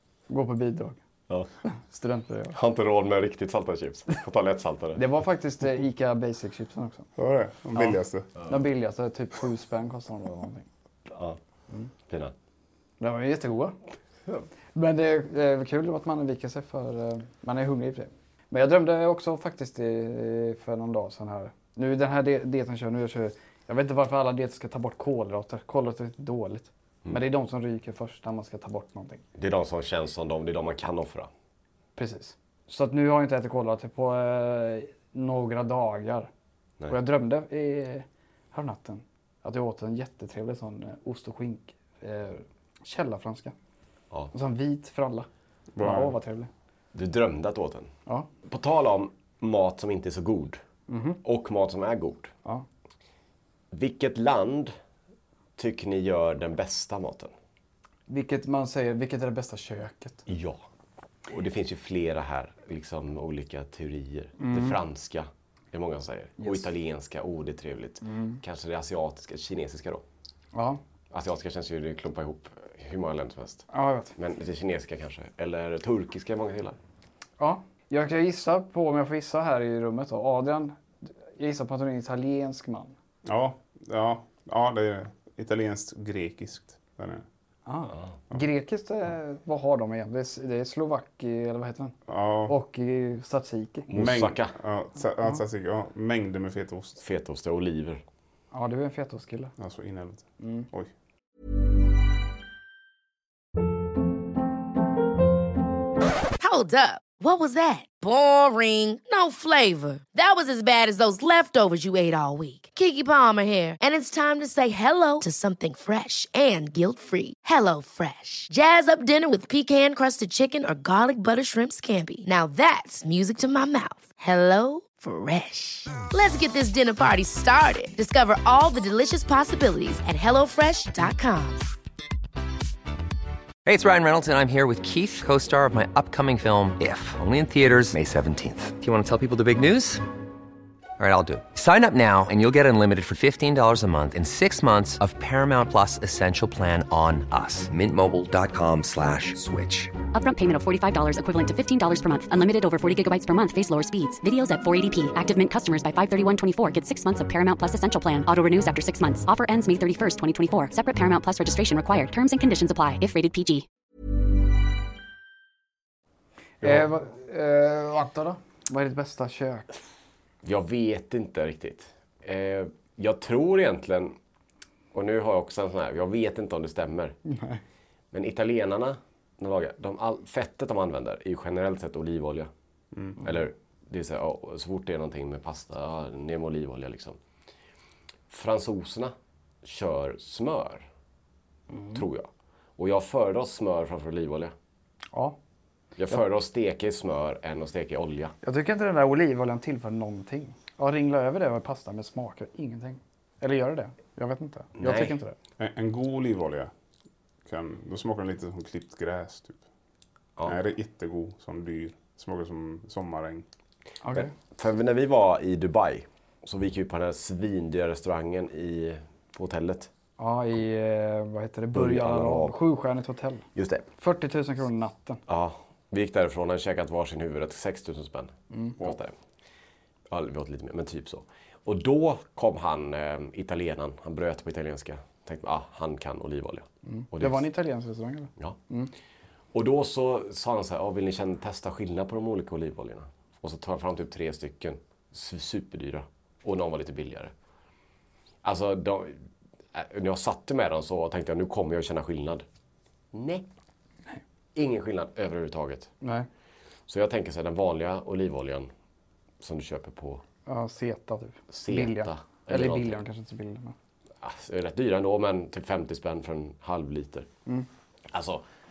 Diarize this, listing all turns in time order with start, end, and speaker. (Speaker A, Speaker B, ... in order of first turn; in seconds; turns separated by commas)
Speaker A: 0.3-1.0, Speaker A: 1.6-2.6, Speaker B: 2.5-5.0, Speaker A: 5.0-7.1, Speaker C: 7.2-8.3, Speaker A: 7.8-10.7, Speaker B: 11.1-11.4, Speaker B: 12.1-12.3, Speaker A: 13.0-13.8, Speaker A: 14.8-29.2, Speaker B: 29.4-31.3, Speaker A: 32.0-36.3, Speaker A: 36.9-43.5, Speaker A: 44.3-45.3, Speaker C: 45.8-46.2, Speaker A: 45.8-46.5, Speaker B: 46.9-47.9, Speaker B: 48.5-50.6, Speaker A: 50.9-51.2, Speaker B: 51.2-52.3, Speaker B: 53.7-54.7, Speaker B: 55.6-57.3, Speaker A: 58.1-60.2, Speaker B: 60.3-60.6, Speaker B: 61.3-70.0, Speaker A: 64.4-64.8, Speaker A: 66.4-66.7, Speaker A: 68.0-68.4, Speaker A: 70.5-70.8, Speaker B: 71.1-76.8, Speaker A: 73.7-74.2, Speaker A: 77.4-82.9, Speaker C: 83.3-87.2, Speaker A: 87.7-92.0, Speaker C: 92.1-92.6, Speaker A: 92.5-93.9, Speaker B: 93.9-94.6, Speaker C: 93.9-97.0, Speaker B: 97.0-98.0, Speaker A: 98.5-99.5, Speaker C: 99.6-100.9, Speaker A: 100.4-100.7, Speaker D: 106.4-131.7, Speaker E: 133.7-140.1, Speaker E: 141.0-149.9, Speaker F: 150.1-163.7, Speaker A: 166.6-169.8, Speaker B: 170.4-174.2, Speaker B: 174.9-177.2, Speaker A: 177.3-177.6, Speaker B: 178.1-182.5, Speaker C: 182.9-183.2, Speaker B: 183.2-187.2, Speaker B: 188.3-190.9, Speaker A: 191.7-192.0, Speaker B: 191.9-194.6, Speaker B: 196.0-198.3, Speaker A: 198.4-205.4, Speaker B: 204.8-205.2, Speaker C: 205.6-206.7, Speaker C: 207.5-209.6, Speaker C: 210.4-213.5, Speaker A: 214.0-214.3, Speaker B: 214.1-219.9, Speaker A: 220.2-223.4, Speaker B: 221.7-222.6, Speaker B: 223.6-223.9, Speaker A: 224.0-225.2, Speaker B: 225.3-229.2, Speaker A: 228.5-228.8, Speaker B: 230.1-237.5, Speaker A: 236.8-238.9, Speaker B: 239.5-247.3, Speaker B: 248.4-252.5, Speaker B: 253.1-253.5, Speaker B: 254.6-255.9, Speaker A: 256.0-256.3, Speaker B: 256.9-258.7, Speaker B: 259.4-260.2, Speaker A: 260.5-263.8, Speaker B: 261.5-263.0, Speaker B: 264.2-267.3, Speaker B: 268.1-268.4